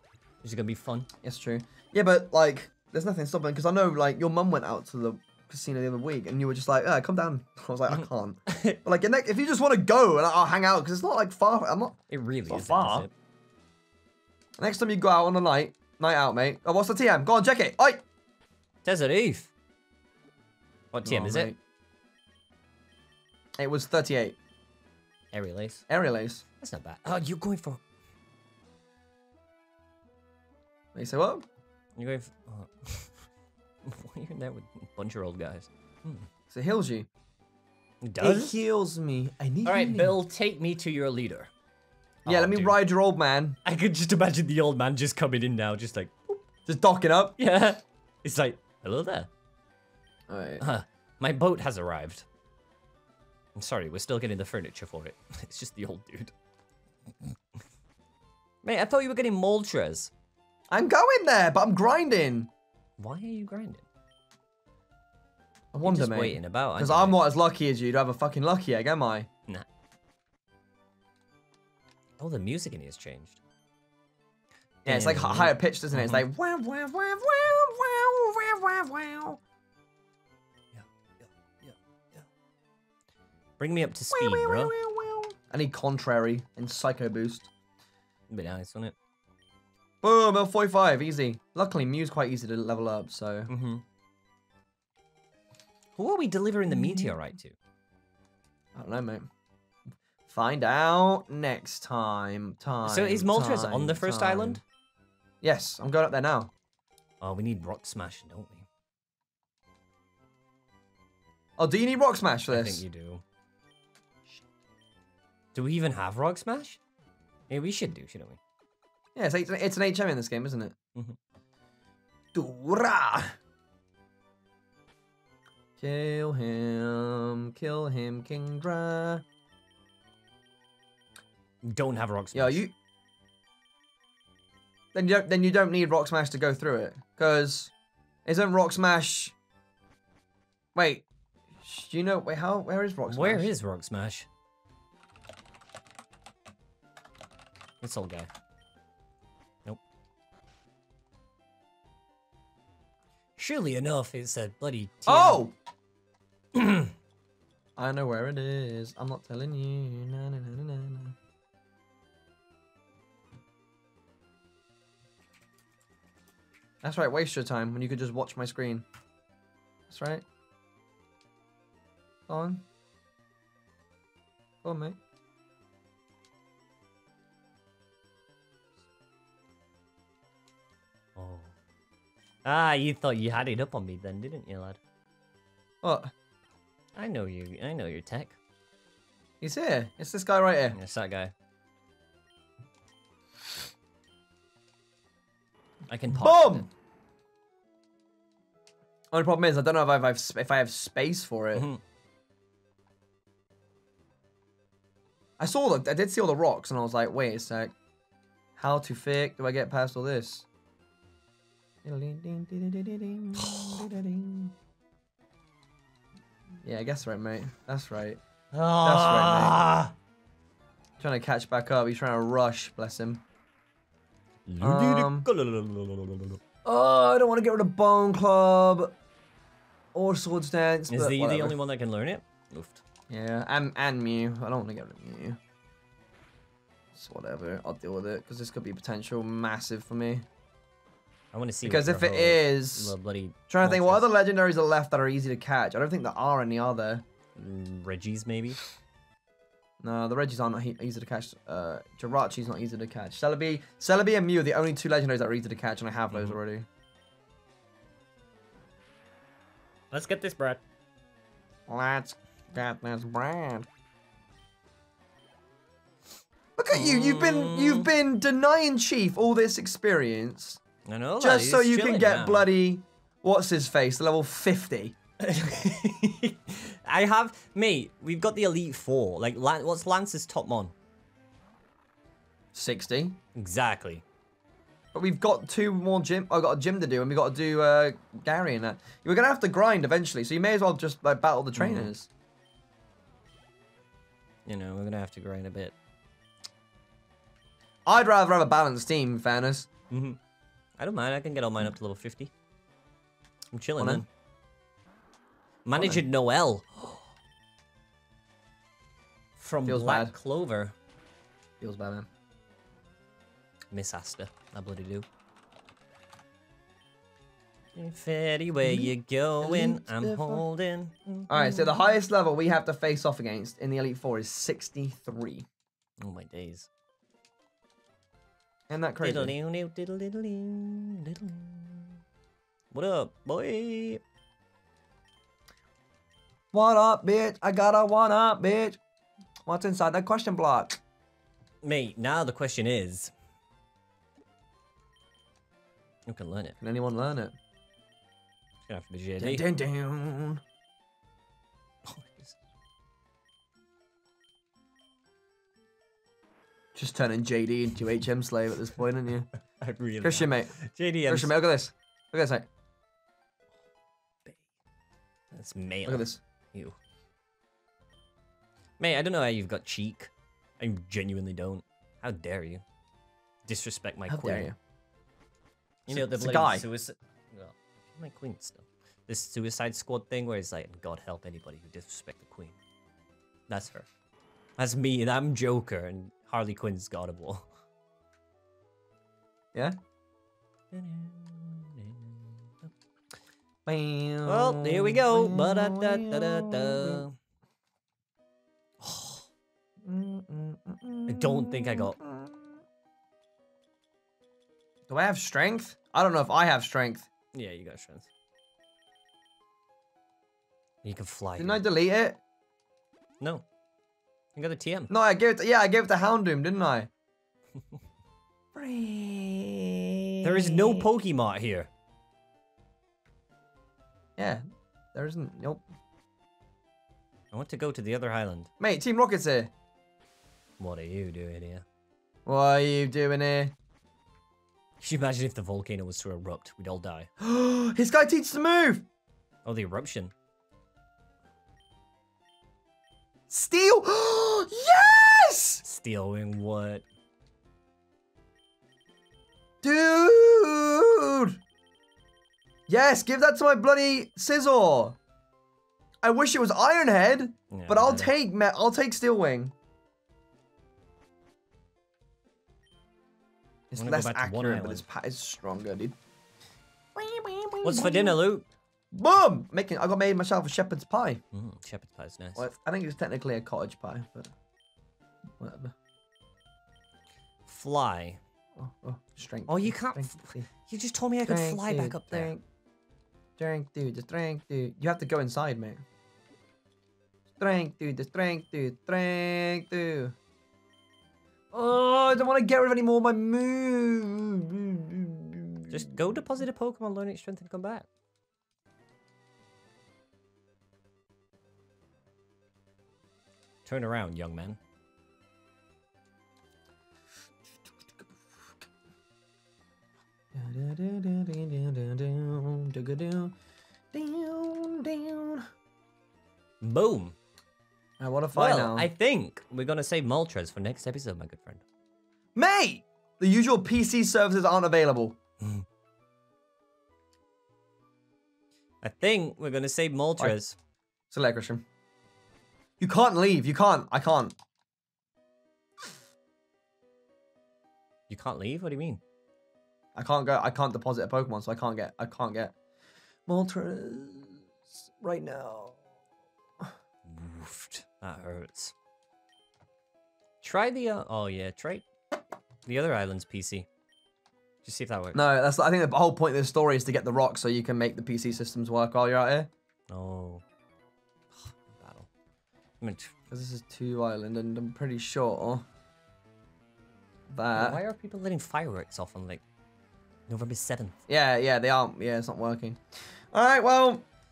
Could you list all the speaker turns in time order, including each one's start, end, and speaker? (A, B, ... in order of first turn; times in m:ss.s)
0:00.4-0:01.1 A
0:01.2-0:13.1 B
0:07.9-0:08.8 A
0:12.1-0:13.1 A
0:14.6-0:18.0 B
0:18.8-0:19.5 A
0:20.9-0:21.5 A
0:21.0-0:21.6 B
0:23.6-0:24.4 B
0:25.3-0:25.8 A
0:25.9-0:26.4 B
0:26.6-0:27.8 A
0:31.0-0:31.4 B
0:32.0-0:33.2 A
0:33.8-0:36.3 A
0:36.5-0:37.1 B
0:38.0-0:38.6 A
0:38.2-0:40.1 B
0:39.6-0:41.5 A
0:42.2-0:42.8 A
0:42.3-0:43.6 B
0:43.6-0:46.5 A
0:46.7-0:47.4 B
0:47.4-0:49.3 A
0:50.3-0:50.6 B
0:50.6-0:52.3 A
0:53.6-0:56.3 A
0:58.6-1:00.1 A
1:00.7-1:02.5 B
1:03.0-1:03.9 A
1:05.7-1:09.3 B
1:05.8-1:07.2 A
1:12.2-1:13.4 A
1:14.8-1:16.2 A
1:14.8-1:19.4 B
1:20.7-1:22.3 A
1:23.6-1:24.8 A
1:24.1-1:27.5 B
1:28.3-1:29.0 A
1:30.0-1:33.5 B
1:33.5-1:33.8 A
1:36.0-1:37.6 A
1:36.8-1:37.1 B
1:38.8-1:39.3 B
1:40.3-1:44.6 B
1:42.8-1:44.6 A
1:45.4-1:46.5 B
1:47.2-1:48.7 A
1:51.6-1:52.8 B
1:52.5-1:53.2 A
1:55.5-1:56.8 A
1:57.5-1:58.4 A
1:59.2-2:00.8 B
2:02.4-2:03.4 B
2:05.8-2:09.2 B
2:11.6-2:12.6 A
2:12.3-2:12.7 B
2:14.9-2:17.7 B
2:18.3-2:19.4 B
2:20.8-2:21.0 B
2:21.6-2:23.5 B
2:23.1-2:24.3 A
2:27.8-2:28.3 A
2:33.4-2:35.4 A
2:35.1-2:35.5 B
2:36.5-2:36.9 A
2:37.8-2:41.2 B
2:46.8-2:48.9 B
2:49.9-2:50.2 B
2:52.3-2:52.6 B
2:54.6-2:55.0 B
3:01.2-3:01.5 A
3:02.4-3:04.8 A
3:05.8-3:06.1 B
3:07.0-3:08.4 A
3:09.4-3:10.8 B
3:10.7-3:11.3 A
3:15.9-3:16.7 A
3:16.2-3:16.7 B
3:19.1-3:21.7 B
3:21.5-3:21.8 A
3:25.4-3:27.7 B
3:28.6-3:30.5 B
3:31.8-3:34.5 B
3:33.4-3:33.8 A
3:36.6-3:38.2 B
3:38.5-3:39.9 A
3:38.8-3:39.6 B
3:41.0-3:43.2 B
3:44.5-3:46.4 A
3:44.6-3:45.3 B
3:46.6-3:49.0 B
3:50.0-3:51.6 B
3:50.9-3:52.8 A
3:53.1-3:55.4 B
3:57.0-4:00.2 B
4:01.3-4:04.1 A
4:01.6-4:02.9 B
4:03.5-4:07.0 B
4:07.4-4:08.6 A
4:09.8-4:16.7 B
4:16.1-4:16.4 A
4:19.9-4:20.6 A
4:21.7-4:23.7 B
4:26.6-4:30.6 B
4:26.7-4:27.9 A
4:30.8-4:32.5 A
4:31.2-4:35.0 B
4:35.2-4:40.7 A
4:42.5-4:43.2 B
4:43.4-4:44.0 A
4:44.9-4:52.1 B
4:51.6-4:51.9 A
4:54.5-4:55.8 A
4:57.9-4:59.7 B
4:59.9-5:00.2 A
5:00.8-5:02.3 A
5:03.5-5:04.1 A
5:03.8-5:04.0 B
5:05.6-5:06.9 A
5:05.8-5:06.0 B
5:09.4-5:10.7 A
5:09.6-5:10.1 B
5:11.6-5:12.1 B
5:13.7-5:15.1 A
5:17.8-5:21.8 A
5:18.6-5:20.4 B
5:21.3-5:25.5 B
5:26.0-5:26.7 A
5:28.7-5:29.4 B
5:29.0-5:32.0 A
5:32.7-5:34.0 A
5:36.5-5:38.8 B
5:39.5-5:40.8 B
5:41.6-5:43.1 A
5:46.1-5:46.6 A
5:46.6-5:47.3 B
5:48.7-5:49.4 A
5:49.2-5:50.4 B
5:51.8-5:52.4 A
5:56.8-5:59.3 B
5:59.6-6:01.4 A
6:00.0-6:00.6 B
6:01.1-6:02.5 B
6:05.3-6:06.8 A
6:05.9-6:06.2 B
6:08.8-6:12.6 A
6:13.4-6:14.5 A
6:14.1-6:14.6 B
6:15.9-6:22.6 A
6:15.9-6:16.6 B
6:23.5-6:23.9 A
6:24.6-6:27.5 A
6:30.7-6:32.7 A
6:33.7-6:37.0 B
6:34.3-6:37.2 A
6:38.8-6:39.3 A
6:39.8-6:42.6 B
6:41.1-6:42.0 A
6:44.9-6:47.1 B
6:47.3-6:48.1 A
6:50.8-6:51.6 A
6:51.4-6:52.2 B
6:53.2-6:53.4 A
6:54.4-6:54.9 A
6:54.9-6:56.9 B
6:58.6-7:00.9 B
7:00.2-7:01.7 A
7:04.9-7:05.6 B
7:07.3-7:08.5 A
7:08.6-7:09.5 B
7:10.6-7:11.6 A
7:12.3-7:13.5 B
7:14.8-7:17.1 A
7:17.2-7:18.9 B
7:19.4-7:20.1 A
7:23.3-7:25.6 B
7:25.6-7:26.8 A
7:29.6-7:31.4 B
7:32.7-7:35.0 B
7:36.0-7:39.5 B
7:37.5-7:38.1 A
7:43.7-7:46.0 B
7:43.8-7:44.9 A
7:47.0-7:48.2 B
7:47.6-7:48.5 A
7:48.9-7:51.2 B
7:51.3-7:52.4 A
7:52.4-7:54.3 B
7:55.4-7:55.7 B
7:57.5-7:58.2 A
7:58.6-8:00.5 B
7:59.5-8:02.3 A
8:01.2-8:02.4 B
8:03.4-8:05.8 B
8:07.4-8:10.2 B
8:11.5-8:16.1 B
8:15.7-8:17.9 A
8:23.7-8:24.6 A
8:30.3-8:33.3 B
8:33.9-8:35.5 B
8:36.6-8:37.2 A
8:38.0-8:38.9 B
8:38.3-8:41.6 A
8:42.4-8:45.2 B
8:45.4-8:45.7 A
8:48.8-8:50.6 A
8:51.1-8:51.6 B
8:52.8-8:54.4 B
8:58.1-8:59.0 A
9:00.0-9:02.5 B
9:03.3-9:04.5 B
9:05.0-9:05.8 B
9:07.0-9:08.7 A
9:10.4-9:11.9 A
9:12.7-9:13.7 A
9:14.6-9:15.2 A
9:15.1-9:19.5 B
9:19.9-9:20.4 A
9:21.3-9:22.1 A
9:22.8-9:23.1 A
9:23.3-9:25.6 B
9:27.3-9:27.8 B
9:27.5-9:29.4 A
9:30.3-9:31.0 A
9:31.1-9:32.8 B
9:33.3-9:34.0 B